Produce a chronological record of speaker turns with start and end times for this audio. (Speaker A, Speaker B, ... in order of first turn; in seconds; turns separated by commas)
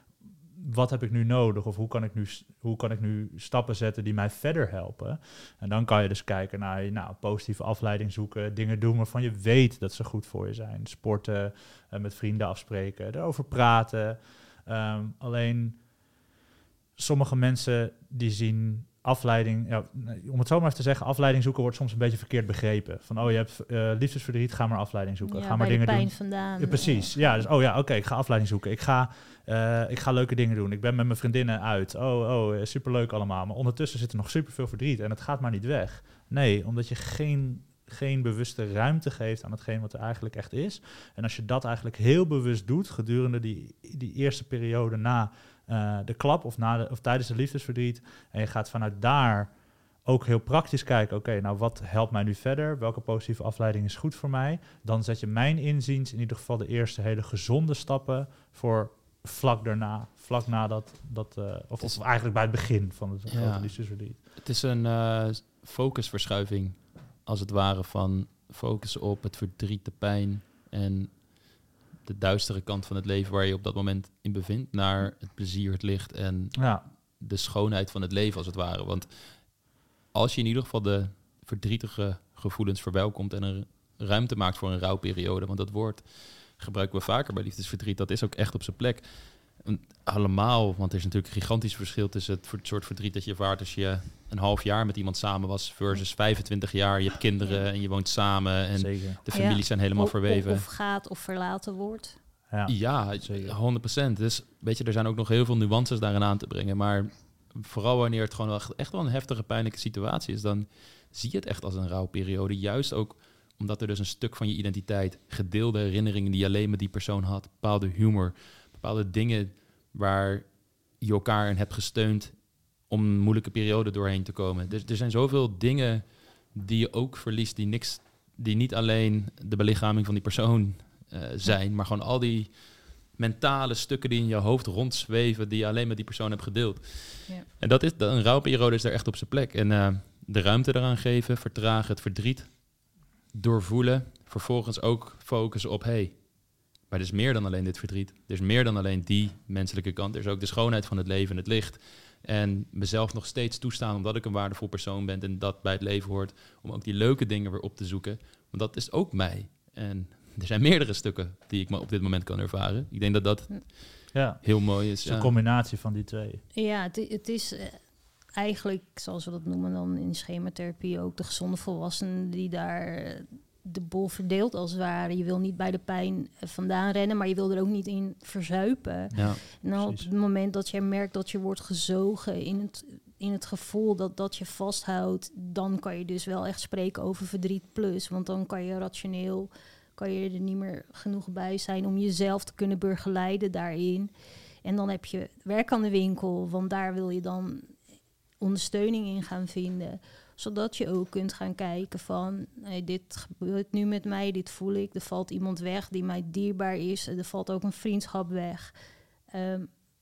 Speaker A: 0.6-15.8, Speaker A: 17.0-64.2, Speaker B: 25.2-27.4, Speaker C: 63.3-100.7, Speaker A: 76.6-76.8, Speaker A: 98.8-99.2, Speaker B: 99.3-102.2, Speaker A: 102.5-103.6, Speaker C: 102.7-142.8, Speaker C: 143.3-165.4, Speaker A: 164.1-166.4, Speaker B: 166.5-194.1, Speaker C: 179.1-179.4, Speaker A: 179.8-180.1, Speaker B: 194.6-197.8, Speaker B: 198.4-208.8, Speaker B: 209.3-209.7